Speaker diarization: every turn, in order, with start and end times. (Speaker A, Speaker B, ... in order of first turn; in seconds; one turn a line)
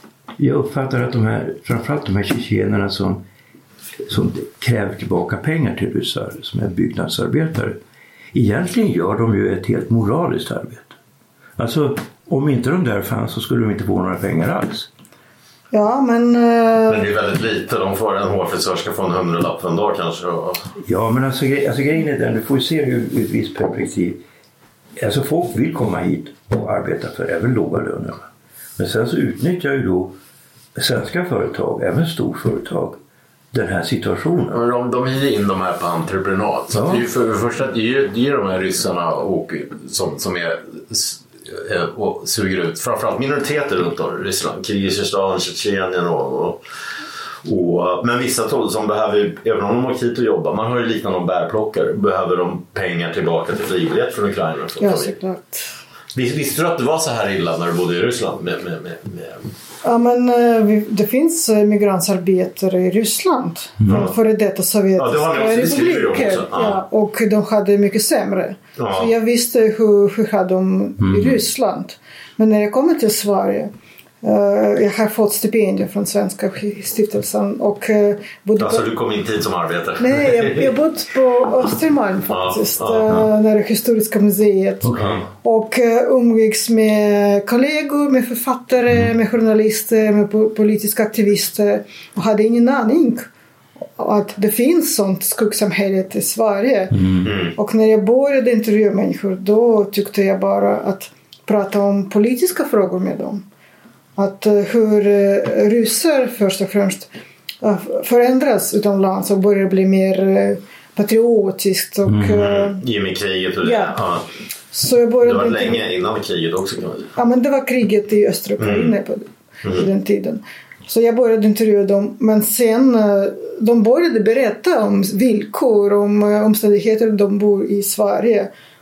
Speaker A: 0.4-3.2
Speaker A: 4.0-7.8
Speaker A: 8.3-10.9
Speaker A: 11.6-14.9
Speaker B: 15.7-17.1
Speaker C: 16.9-20.6
Speaker A: 20.8-24.2
Speaker A: 25.0-28.2
Speaker A: 28.8-30.1
Speaker A: 30.8-33.0
Speaker A: 33.5-34.6
Speaker C: 34.5-46.6
Speaker A: 36.7-37.0
Speaker C: 47.4-55.1
Speaker B: 54.8-55.7
Speaker C: 56.1-59.5
Speaker B: 59.8-73.7
Speaker A: 63.8-64.1
Speaker C: 63.9-64.1
Speaker C: 65.0-66.8
Speaker C: 68.8-69.1
Speaker A: 71.0-71.4
Speaker B: 74.2-78.8
Speaker C: 78.6-80.8
Speaker B: 80.0-93.3
Speaker C: 82.3-83.1
Speaker A: 84.8-85.2
Speaker C: 85.0-85.2
Speaker B: 94.0-97.0
Speaker A: 96.9-97.3
Speaker C: 97.2-97.5
Speaker B: 97.5-103.4
Speaker B: 104.2-107.1
Speaker B: 107.6-112.8
Speaker A: 112.1-112.4
Speaker C: 112.3-114.2
Speaker B: 113.6-114.0
Speaker B: 114.7-115.8
Speaker C: 115.2-117.1
Speaker B: 117.2-128.5
Speaker C: 118.6-118.9